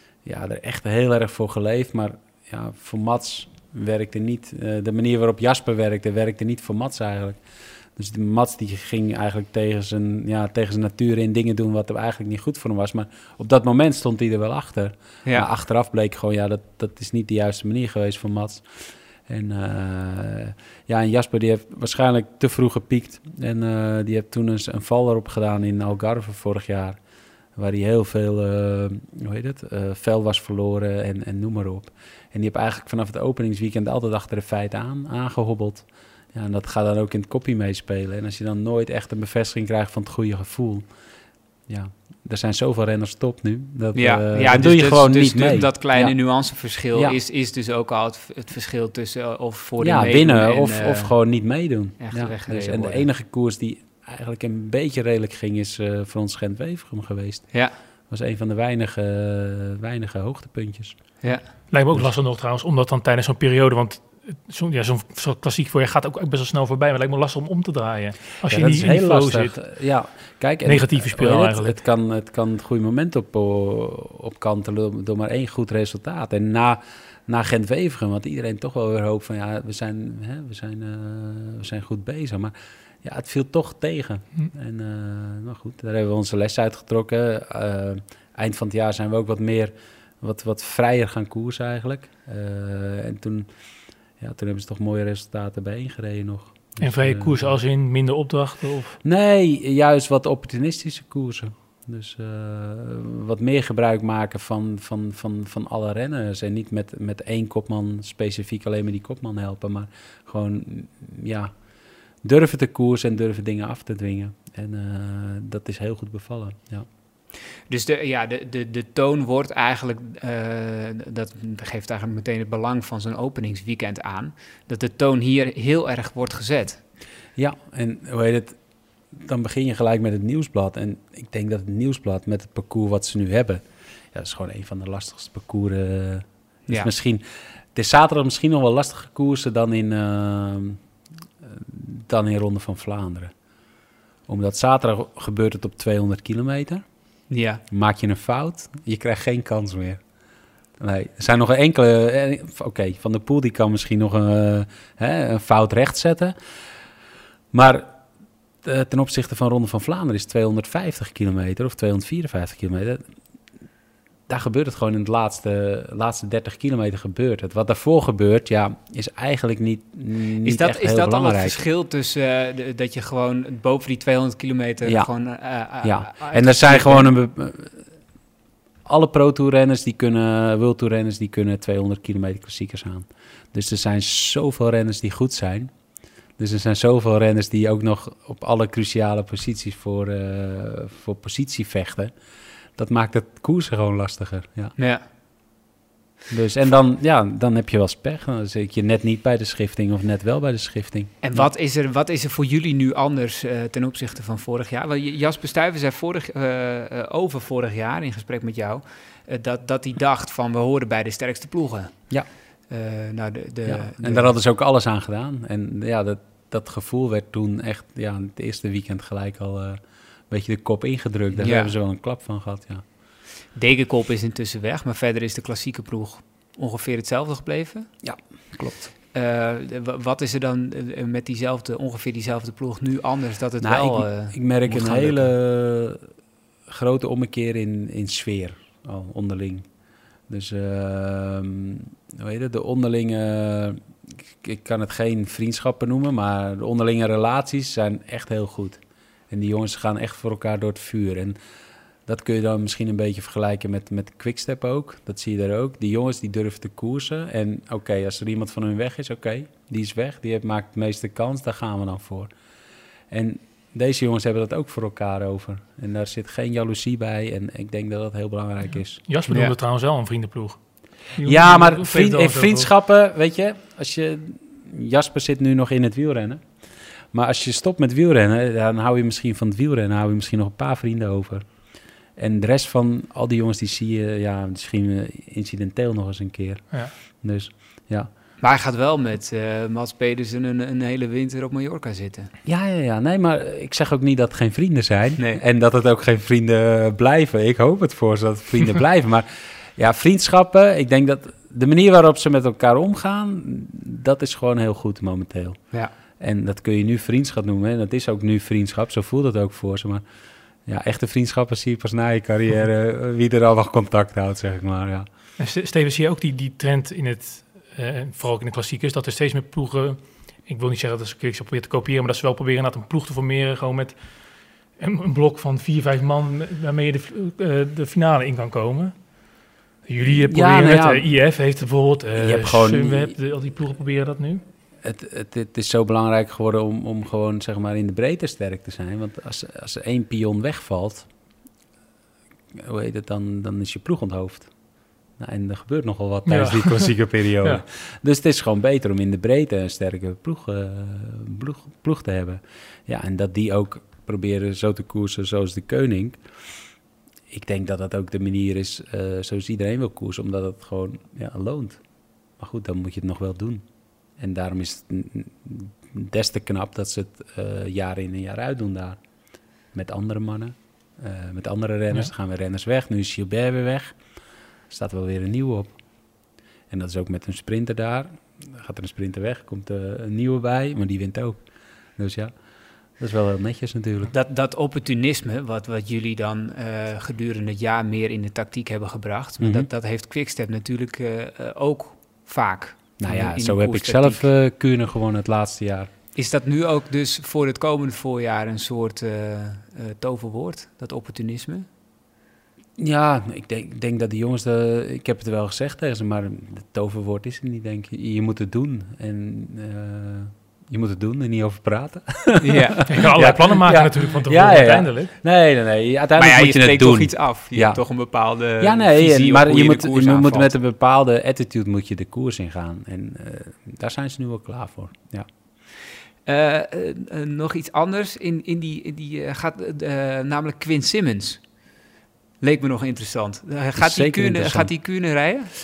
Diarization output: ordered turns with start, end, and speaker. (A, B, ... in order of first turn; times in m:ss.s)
0:00.2-0:27.0 A
0:27.5-0:41.0 A
0:41.6-0:47.2 A
0:43.9-0:51.1 B
0:49.8-1:02.1 A
0:52.0-0:53.1 B
0:57.5-0:57.8 B
1:01.7-1:09.8 C
1:08.4-1:33.5 A
1:10.6-1:11.8 C
1:34.1-1:37.6 A
1:36.8-1:39.0 C
1:39.0-1:56.9 A
1:57.7-2:06.8 B
2:07.4-2:20.8 A
2:21.4-2:23.3 A
2:24.3-2:27.1 A
2:27.3-2:27.6 B
2:27.7-2:30.1 A
2:30.8-2:36.3 A
2:37.5-2:38.0 A
2:38.6-2:43.1 A
2:44.3-2:51.6 A
2:50.4-2:57.1 B
2:54.8-2:57.8 A
2:58.8-3:12.1 A
3:12.8-3:14.8 A
3:14.8-3:15.0 B
3:16.3-3:21.5 A
3:21.2-3:32.2 B
3:32.7-3:34.4 B
3:33.6-3:42.8 A
3:41.4-3:41.7 B
3:43.5-3:47.9 B
3:48.0-3:48.9 A
3:49.1-3:55.3 B
3:53.6-3:56.0 A
3:56.7-3:59.6 A
4:00.3-4:11.4 A
4:12.0-4:22.3 A
4:23.1-4:29.0 A
4:29.1-4:32.7 C
4:29.3-4:29.5 B
4:31.2-4:48.1 A
4:48.4-4:52.3 B
4:52.4-5:10.0 A
5:10.6-5:15.0 A
5:15.4-5:34.4 C
5:30.1-5:31.2 A
5:32.1-5:33.2 A
5:34.8-5:41.1 A
5:42.5-5:56.3 A
5:46.2-5:47.6 C
5:57.3-6:24.1 A
6:24.1-6:34.3 B
6:29.4-6:29.7 A
6:33.0-6:35.9 A
6:36.1-6:41.7 B
6:42.8-7:05.3 A
6:52.4-6:52.9 B
6:52.9-6:55.1 C
6:56.2-7:00.5 B
7:06.2-7:11.6 B
7:12.4-7:15.5 B
7:13.8-7:14.8 A